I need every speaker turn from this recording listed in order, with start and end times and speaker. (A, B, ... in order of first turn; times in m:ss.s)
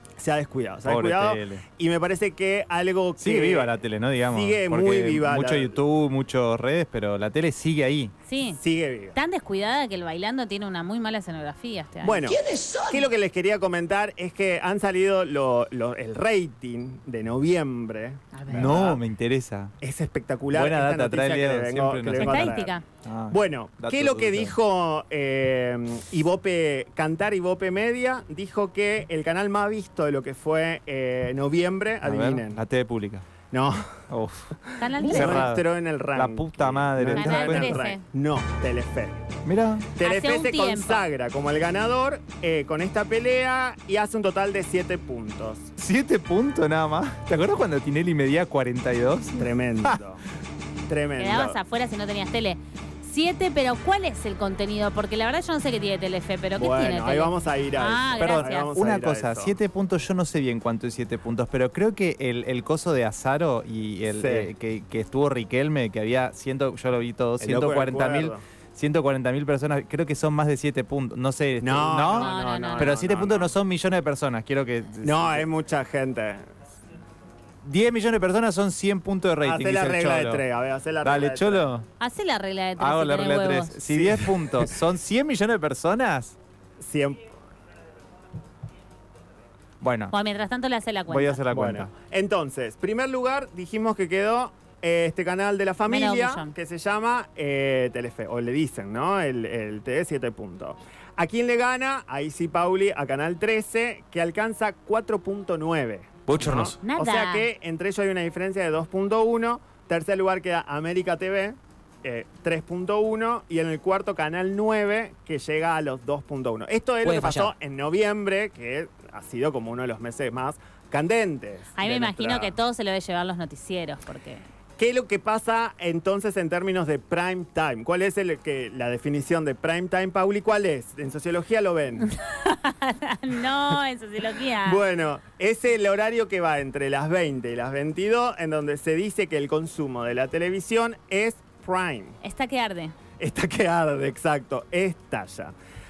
0:00.2-0:03.7 A
0:00.8-0:01.6 B
0:03.2-0:08.1 B
0:04.2-0:05.8 A
0:08.3-0:08.6 C
0:08.6-0:09.2 A
0:09.1-0:12.9 C
0:12.0-0:19.0 A
0:18.3-0:18.8 C
0:18.5-0:19.7 B
0:19.8-0:22.8 A
0:20.5-0:24.6 B
0:22.2-0:22.8 C
0:23.3-0:32.6 A
0:32.0-0:33.2 B
0:33.5-0:34.0 A
0:34.1-0:37.8 B
0:34.8-0:35.4 C
0:35.0-0:39.4 A
0:37.1-0:38.0 C
0:39.4-0:39.9 B
0:40.0-0:45.7 A
0:40.0-0:41.0 C
0:45.8-0:50.0 B
0:49.4-0:50.2 A
0:50.9-0:51.6 A
0:51.2-0:58.7 C
0:56.6-0:59.6 A
0:58.2-1:15.4 B
1:04.1-1:04.5 A
1:07.4-1:08.4 A
1:11.6-1:13.5 A
1:12.1-1:13.0 C
1:15.0-1:16.5 A
1:17.6-1:20.4 B
1:19.4-1:21.6 A
1:21.0-1:21.9 B
1:22.0-1:23.8 C
1:22.8-1:26.4 B
1:23.9-1:24.7 A
1:26.8-1:27.2 A
1:29.8-1:30.1 B
1:30.1-1:31.4 C
1:31.1-1:31.9 B
1:31.5-2:02.5 A
1:35.9-1:36.5 C
1:46.3-1:46.8 B
1:46.8-1:47.5 C
1:57.0-1:57.5 B
2:01.8-2:04.4 C
2:04.8-2:12.1 A
2:12.1-2:14.8 C
2:14.6-2:22.2 A
2:22.2-2:22.9 C
2:23.2-2:25.5 A